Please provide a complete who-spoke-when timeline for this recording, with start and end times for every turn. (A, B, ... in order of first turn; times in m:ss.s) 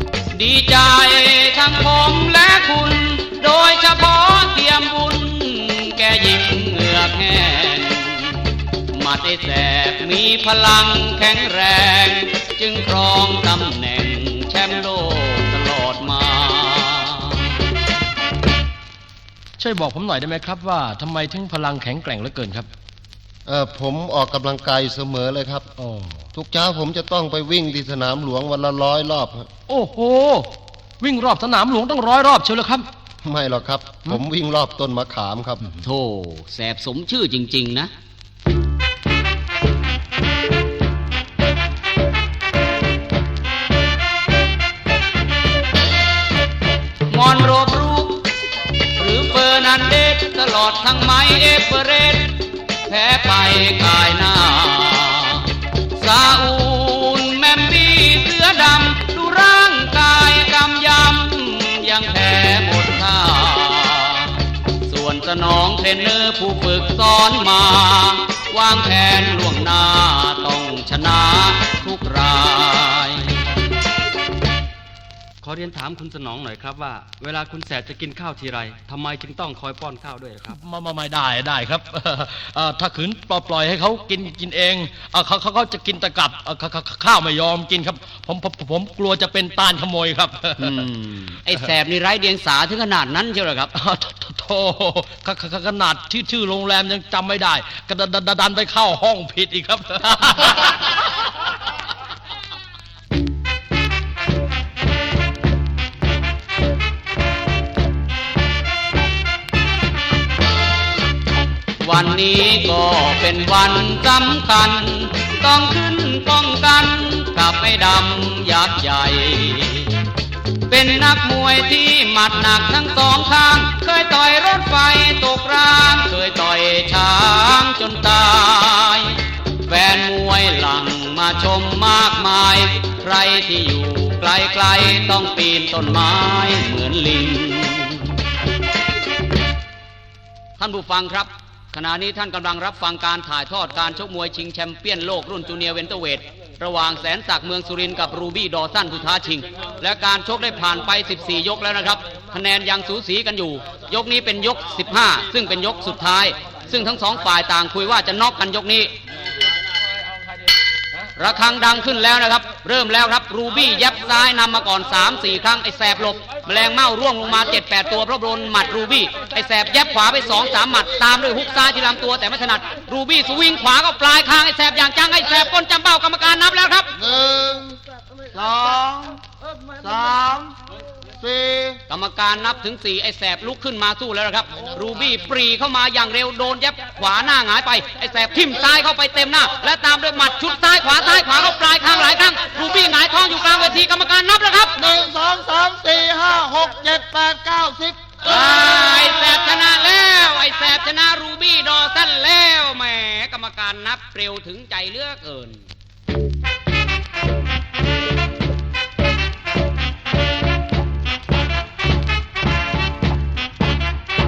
0:00.3-0:17.6 A
0:19.6-0:22.7 B
0:23.4-0:25.7 C
0:25.8-0:26.2 B
0:26.3-0:29.5 C
0:29.7-0:30.5 B
0:31.0-0:32.9 B
0:33.2-0:35.6 C
0:35.8-0:37.9 A
0:47.1-0:48.3 A
0:49.0-1:13.5 A
1:15.4-1:20.6 D
1:20.5-1:30.8 B
1:30.6-1:33.7 A
1:33.7-1:40.9 B
1:51.8-2:00.0 A
2:00.7-2:18.2 A
2:20.6-2:38.9 A
2:41.2-2:56.9 A
2:57.0-2:57.8 C
2:58.3-3:00.5 C
3:01.2-3:01.8 C
3:01.9-3:14.8 A
3:14.8-3:18.0 C
3:18.2-3:25.6 A